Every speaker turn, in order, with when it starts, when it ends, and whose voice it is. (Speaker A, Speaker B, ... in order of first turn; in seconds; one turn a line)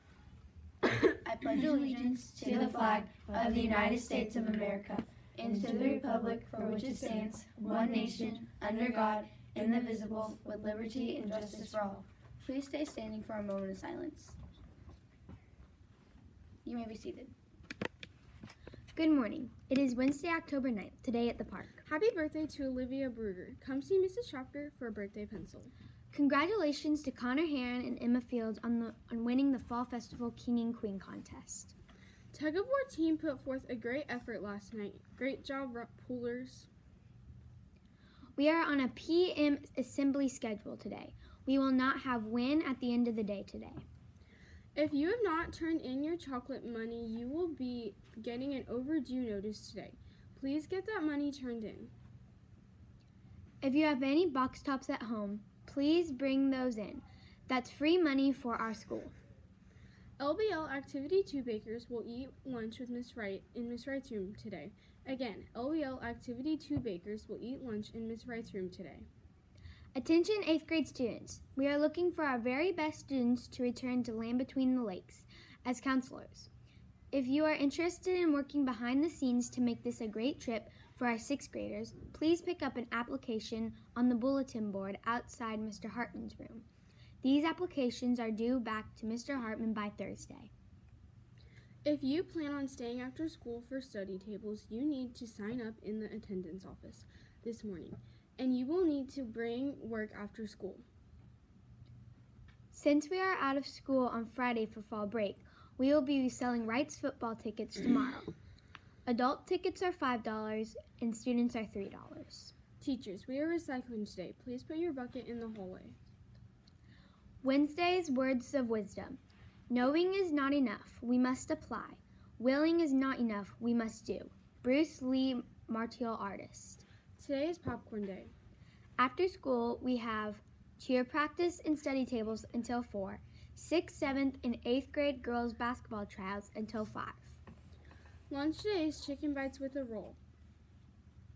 Speaker A: 1.1-14.4
Speaker A: 16.6-17.3
Speaker B: 18.9-21.8
Speaker C: 21.8-25.7
Speaker B: 26.1-31.8
Speaker C: 32.3-36.7
Speaker B: 38.4-43.8
Speaker C: 44.8-51.9
Speaker B: 53.6-59.1
Speaker C: 60.2-69.1
Speaker B: 70.0-76.5
Speaker B: 77.1-86.7
Speaker B: 87.2-90.5
Speaker C: 91.8-100.9
Speaker B: 102.7-108.3
Speaker B: 109.1-112.5
Speaker C: 112.8-116.0
Speaker B: 117.4-126.8
Speaker C: 127.2-128.3
Speaker B: 129.0-137.4
Speaker C: 138.3-140.2